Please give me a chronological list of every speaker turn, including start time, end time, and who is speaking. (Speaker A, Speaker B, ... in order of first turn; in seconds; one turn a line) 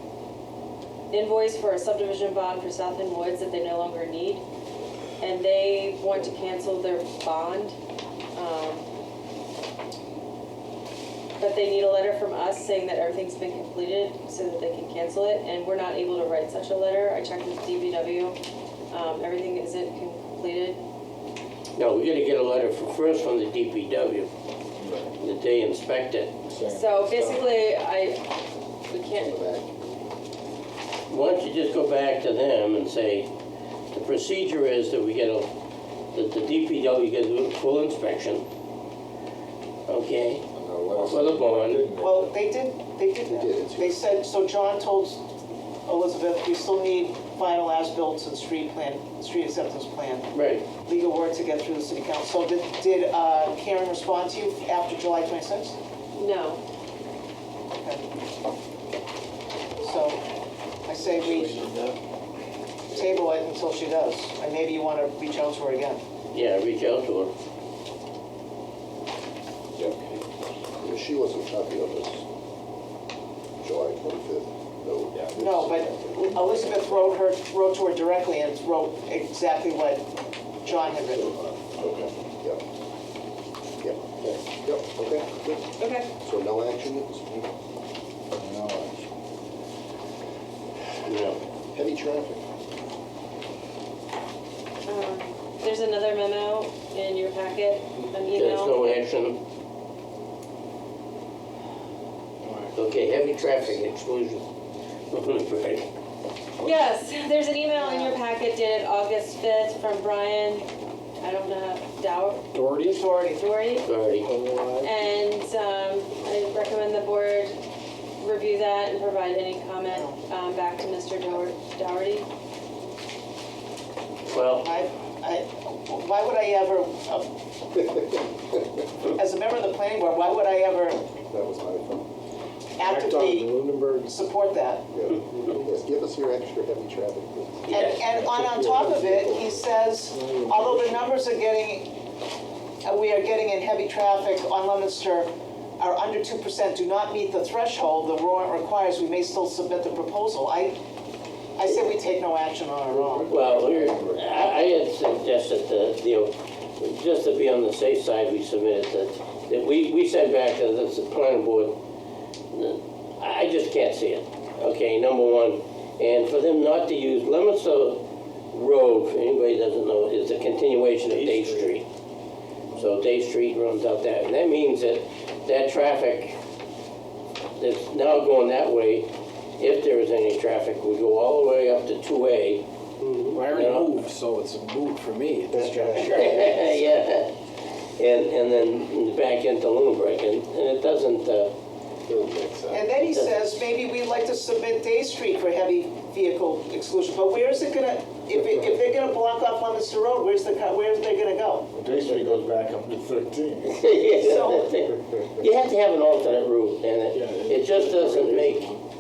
Speaker A: 1.1-4.4
Speaker A: 5.2-7.8
Speaker A: 8.3-8.9
Speaker A: 11.4-18.4
Speaker A: 18.9-20.8
Speaker B: 21.8-24.3
Speaker C: 24.8-25.1
Speaker B: 25.2-26.4
Speaker C: 26.5-27.4
Speaker A: 26.6-28.3
Speaker A: 28.9-29.6
Speaker D: 29.1-29.9
Speaker B: 31.1-33.3
Speaker B: 33.9-35.5
Speaker B: 36.1-38.5
Speaker B: 39.9-41.9
Speaker C: 40.5-42.3
Speaker E: 42.0-45.2
Speaker D: 43.3-44.0
Speaker E: 45.9-50.3
Speaker B: 50.3-50.7
Speaker E: 50.8-55.8
Speaker A: 56.1-56.6
Speaker E: 57.8-58.0
Speaker E: 59.8-60.2
Speaker E: 60.9-61.8
Speaker F: 61.2-62.0
Speaker E: 62.9-66.0
Speaker B: 66.3-67.3
Speaker D: 70.8-72.2
Speaker D: 73.6-75.3
Speaker C: 75.1-75.9
Speaker E: 75.4-80.0
Speaker E: 80.6-81.4
Speaker D: 81.2-82.6
Speaker C: 81.8-82.1
Speaker D: 84.5-87.5
Speaker A: 85.8-86.1
Speaker C: 88.4-89.0
Speaker B: 91.0-91.4
Speaker D: 91.7-92.4
Speaker A: 94.9-99.0
Speaker B: 98.3-99.4
Speaker B: 102.8-104.5
Speaker B: 105.1-105.9
Speaker A: 106.6-110.7
Speaker E: 107.8-108.2
Speaker A: 111.2-112.5
Speaker F: 112.5-113.0
Speaker E: 112.8-113.4
Speaker A: 113.3-113.9
Speaker B: 113.8-114.3
Speaker F: 114.2-114.9
Speaker A: 114.8-117.6
Speaker A: 118.2-122.3
Speaker E: 119.9-120.2
Speaker B: 124.3-124.7
Speaker E: 124.6-127.3
Speaker E: 129.1-131.1
Speaker D: 131.3-132.1
Speaker E: 132.8-133.5
Speaker F: 132.8-134.2
Speaker E: 134.1-134.9
Speaker D: 134.9-137.7
Speaker B: 137.7-138.0
Speaker E: 137.7-141.9
Speaker F: 138.2-139.2
Speaker F: 140.1-141.1
Speaker E: 142.8-150.8
Speaker E: 151.6-153.4
Speaker C: 153.1-154.2
Speaker B: 153.3-161.8
Speaker B: 162.5-171.9
Speaker F: 171.1-171.8
Speaker B: 172.8-176.4
Speaker B: 177.6-182.6
Speaker F: 183.1-186.6
Speaker B: 183.4-184.0
Speaker B: 185.8-187.3
Speaker B: 188.0-191.5
Speaker D: 192.1-192.8
Speaker E: 192.7-201.7
Speaker B: 193.0-193.7
Speaker C: 201.8-203.9
Speaker B: 203.7-208.8
Speaker E: 204.2-204.9
Speaker F: 207.1-208.8